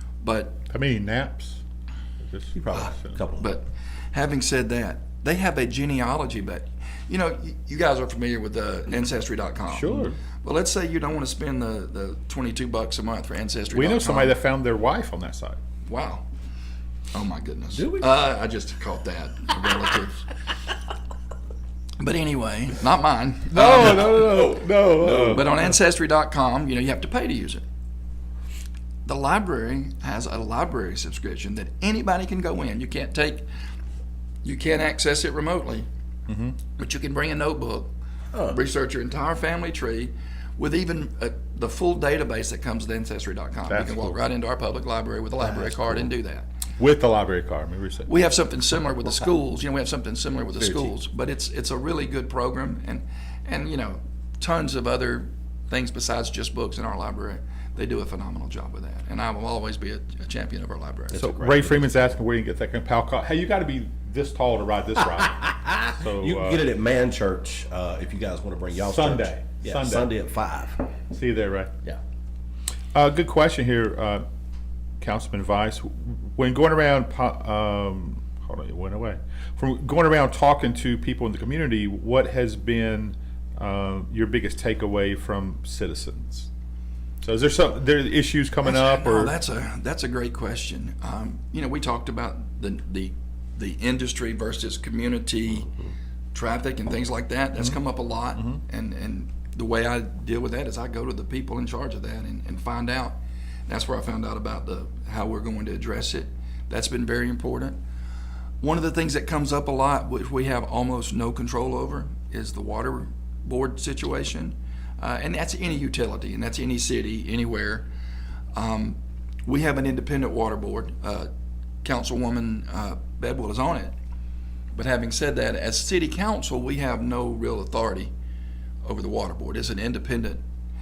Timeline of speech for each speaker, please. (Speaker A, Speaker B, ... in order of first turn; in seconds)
Speaker A: 0.2-0.6, 2.7-14.4, 15.8-16.2, 17.1-20.3, 22.0-27.6, 29.1-33.4, 34.4-35.9, 36.7-37.9, 38.5-46.5, 48.0-61.2, 88.6-95.7, 96.3-107.8, 108.6-117.9, 118.5-121.3, 121.8-124.0, 124.7-128.1, 128.8-130.4
Speaker B: 0.7-1.6, 2.2-3.2, 9.7-10.2, 13.7-15.6, 23.5-25.6, 36.3-36.6, 43.7-44.2, 46.8-48.1, 61.2-66.6, 68.8-70.1, 71.1-71.7, 72.9-74.2, 75.0-86.5, 87.2-89.3
Speaker C: 2.5-3.5, 17.7-18.1, 24.1-24.5, 25.0-25.4, 45.4-46.1, 50.6-50.9, 61.1-62.0, 65.2-70.9